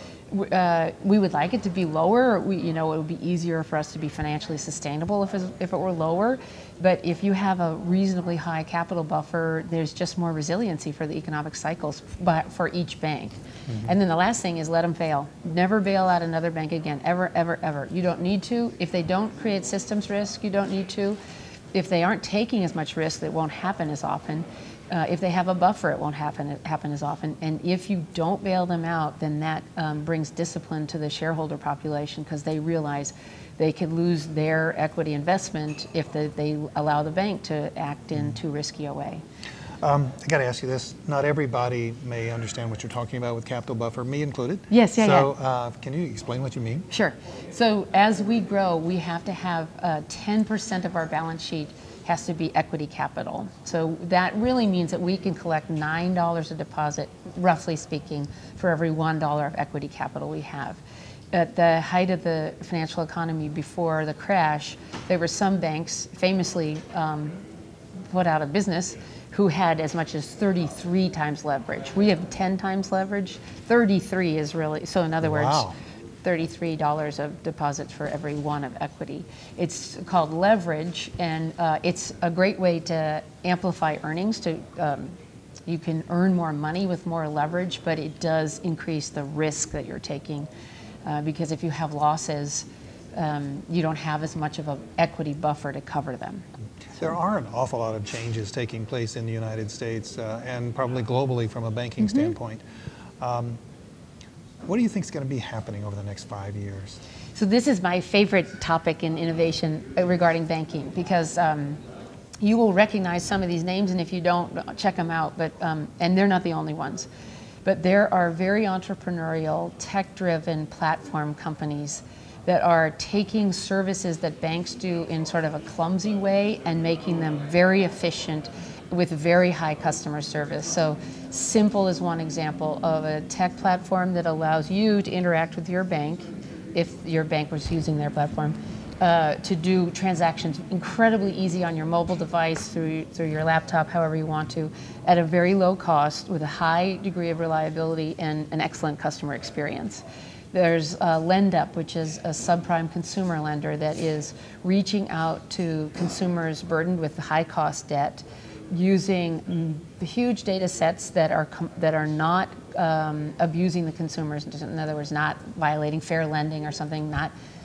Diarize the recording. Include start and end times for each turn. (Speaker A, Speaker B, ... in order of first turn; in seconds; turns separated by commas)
Speaker A: 0.3-21.2, Speaker A: 21.7-39.2, Speaker B: 39.8-46.9, Speaker A: 44.7-45.3, Speaker A: 46.9-60.8, Speaker A: 61.3-67.4, Speaker A: 68.1-85.1, Speaker B: 75.2-75.7, Speaker A: 85.7-90.5, Speaker A: 91.0-96.4, Speaker B: 97.0-102.6, Speaker A: 102.0-102.3, Speaker B: 103.2-103.6, Speaker B: 104.7-107.0, Speaker A: 107.3-111.8, Speaker A: 112.4-117.1, Speaker A: 117.6-167.3